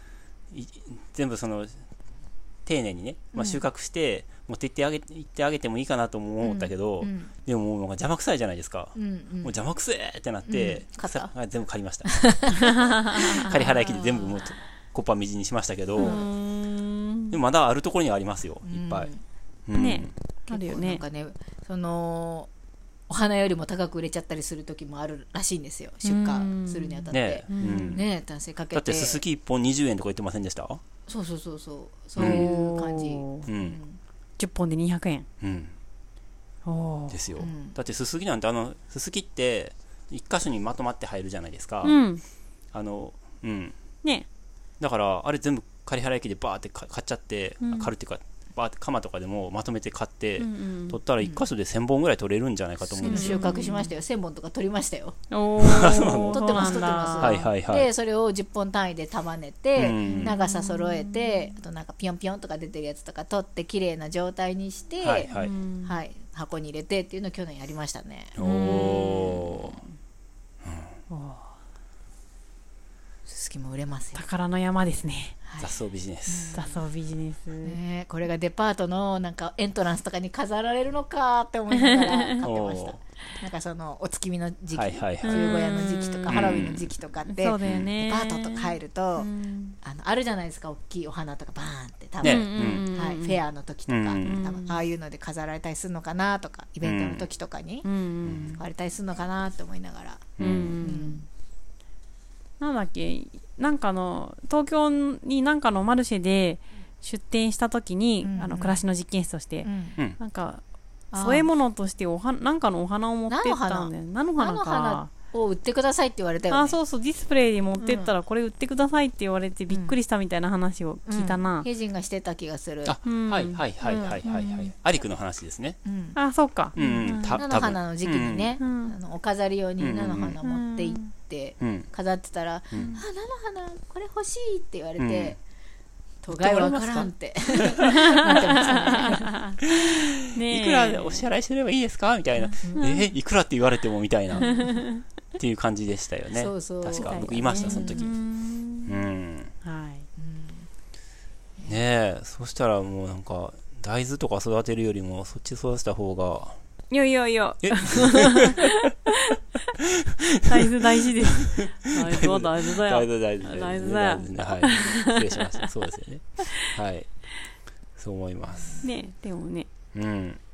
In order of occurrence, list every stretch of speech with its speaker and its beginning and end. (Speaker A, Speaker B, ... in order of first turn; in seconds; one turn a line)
Speaker A: 0.5-1.8
Speaker A: 2.6-16.2
Speaker B: 3.3-3.6
Speaker B: 6.4-7.3
Speaker B: 8.9-9.6
Speaker B: 10.4-11.3
Speaker B: 12.1-14.5
Speaker C: 15.9-17.4
Speaker B: 16.0-16.3
Speaker A: 17.3-19.1
Speaker B: 18.7-19.2
Speaker A: 19.7-20.1
Speaker C: 19.7-21.0
Speaker B: 20.5-22.5
Speaker B: 23.1-29.2
Speaker C: 26.0-28.0
Speaker A: 27.1-28.1
Speaker A: 28.7-30.8
Speaker B: 31.1-34.0
Speaker A: 32.2-32.5
Speaker C: 32.2-33.5
Speaker A: 33.5-33.8
Speaker C: 34.4-35.3
Speaker A: 35.4-35.7
Speaker C: 36.6-37.2
Speaker A: 37.1-42.0
Speaker B: 37.4-37.8
Speaker C: 41.8-42.2
Speaker A: 42.7-43.8
Speaker A: 44.8-53.6
Speaker C: 47.6-47.9
Speaker C: 50.4-51.0
Speaker B: 53.0-55.2
Speaker C: 53.0-53.9
Speaker C: 55.3-57.5
Speaker A: 55.6-57.9
Speaker B: 55.8-65.3
Speaker A: 59.8-60.4
Speaker C: 60.0-61.5
Speaker A: 65.0-65.5
Speaker C: 65.3-66.0
Speaker B: 65.8-68.8
Speaker A: 68.4-69.8
Speaker C: 68.4-69.9
Speaker A: 70.6-70.9
Speaker C: 71.1-71.6
Speaker B: 73.3-74.2
Speaker C: 74.2-75.3
Speaker B: 75.5-75.7
Speaker A: 75.6-76.6
Speaker B: 76.3-76.9
Speaker C: 76.5-77.8
Speaker B: 77.6-89.3
Speaker C: 82.0-82.3
Speaker A: 82.4-83.0
Speaker A: 84.7-86.9
Speaker C: 85.2-86.7
Speaker C: 87.3-89.8
Speaker A: 87.6-87.9
Speaker B: 89.8-97.9
Speaker A: 92.2-92.9
Speaker C: 92.2-93.4
Speaker A: 93.9-94.4
Speaker C: 94.2-94.8
Speaker A: 96.8-97.3
Speaker C: 97.8-98.6
Speaker A: 98.2-98.5
Speaker B: 98.5-101.2
Speaker A: 100.4-100.8
Speaker C: 100.4-101.3
Speaker C: 102.6-110.6
Speaker B: 108.2-108.8
Speaker B: 109.6-110.0
Speaker B: 111.1-111.5
Speaker C: 111.2-115.1
Speaker B: 113.3-116.8
Speaker C: 116.5-121.7
Speaker B: 117.8-118.1
Speaker B: 119.7-120.0
Speaker B: 121.1-123.0
Speaker A: 122.8-125.8
Speaker C: 123.0-124.7
Speaker B: 123.8-124.2
Speaker B: 125.8-126.2
Speaker C: 126.2-127.5
Speaker A: 126.8-128.5
Speaker B: 126.8-135.4
Speaker C: 128.6-128.9
Speaker A: 129.8-130.4
Speaker C: 130.4-131.1
Speaker A: 131.6-131.9
Speaker C: 132.7-133.0
Speaker A: 135.0-135.4
Speaker B: 136.2-139.4
Speaker A: 136.3-137.1
Speaker C: 137.8-139.7
Speaker A: 138.5-138.9
Speaker A: 139.7-144.8
Speaker C: 140.3-141.2
Speaker B: 142.5-142.9
Speaker C: 142.8-143.1
Speaker C: 144.4-145.0
Speaker A: 145.4-148.1
Speaker B: 146.3-148.1
Speaker C: 146.9-148.9
Speaker A: 148.9-149.5
Speaker C: 149.6-150.1
Speaker B: 150.2-150.7
Speaker A: 151.7-156.6
Speaker C: 156.9-158.7
Speaker A: 157.6-158.7
Speaker A: 160.3-160.8
Speaker C: 160.5-165.6
Speaker A: 161.6-167.1
Speaker A: 168.0-168.8
Speaker C: 168.8-169.7
Speaker A: 169.9-170.4